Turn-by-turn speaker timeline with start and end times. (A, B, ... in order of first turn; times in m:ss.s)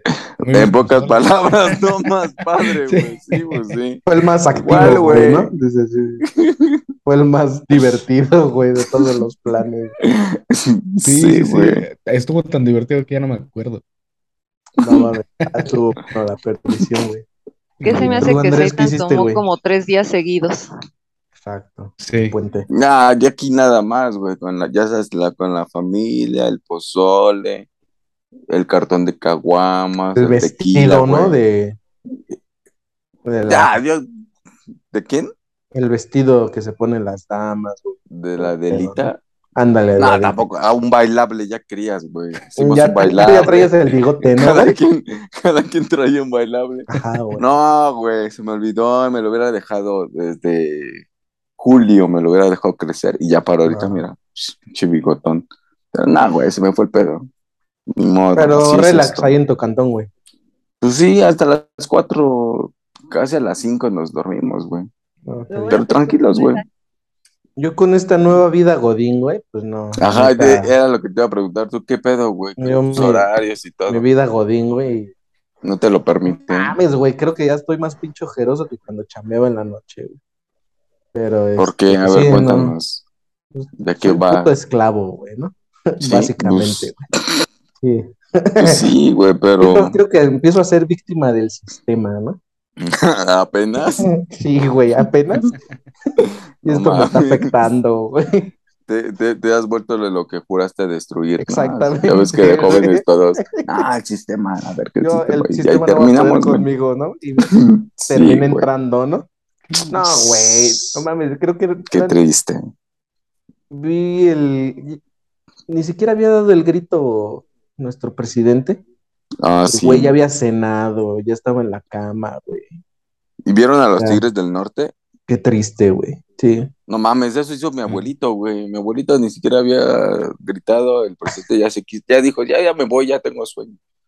0:00.1-0:05.5 A
0:00.4-0:01.8 B
0:02.6-0:03.8 B
0:04.1-0:06.2 C
0:06.4-0:06.8 A
0:07.0-0:09.9 C
0:10.0-0:11.8 A
0:11.0-0:13.8 B
0:14.8-0:17.2 C
0:14.8-0:15.1 A
0:17.8-0:18.3 B
0:17.8-0:20.7 D
0:17.9-0:19.4 C
0:21.4-0:22.7 C
0:22.0-0:22.4 B
0:22.7-0:27.7 A
0:28.5-0:31.4 A
0:30.2-0:31.8 C
0:33.2-0:33.7 C
0:33.4-0:34.0 A
0:34.9-0:35.3 A
0:35.7-0:40.4 C
0:38.1-0:39.2 A
0:40.0-0:51.0 A
0:42.6-0:44.7 C
0:46.9-0:47.4 C
0:51.6-0:57.3 A
0:53.7-0:54.0 C
0:57.9-0:59.3 A
0:58.3-1:00.1 C
1:00.8-1:04.9 A
1:05.3-1:05.8 C
1:05.5-1:06.6 D
1:05.7-1:06.6 A
1:07.6-1:10.7 C
1:10.0-1:14.0 A
1:12.6-1:13.3 C
1:13.9-1:15.1 C
1:15.6-1:16.7 A
1:16.3-1:20.2 C
1:21.1-1:22.7 C
1:21.6-1:23.0 A
1:23.5-1:27.0 C
1:23.8-1:24.5 A
1:26.0-1:27.4 A
1:27.8-1:28.9 C
1:28.6-1:30.0 A
1:29.6-1:32.4 C
1:32.8-1:34.1 A
1:34.0-1:35.5 C
1:36.2-1:37.5 A
1:36.6-1:38.5 C
1:38.9-1:46.6 A
1:41.4-1:43.8 C
1:45.0-1:47.5 C
1:47.5-1:48.6 A
1:48.1-1:49.3 C
1:49.8-1:51.0 A
1:49.9-1:52.2 C
1:51.9-1:52.6 A
1:53.7-1:55.0 C
1:55.7-1:58.8 C
1:59.4-2:00.1 A
1:59.7-2:02.7 C
2:03.4-2:04.9 A
2:04.0-2:04.2 C
2:05.3-2:06.7 C
2:06.9-2:13.8 A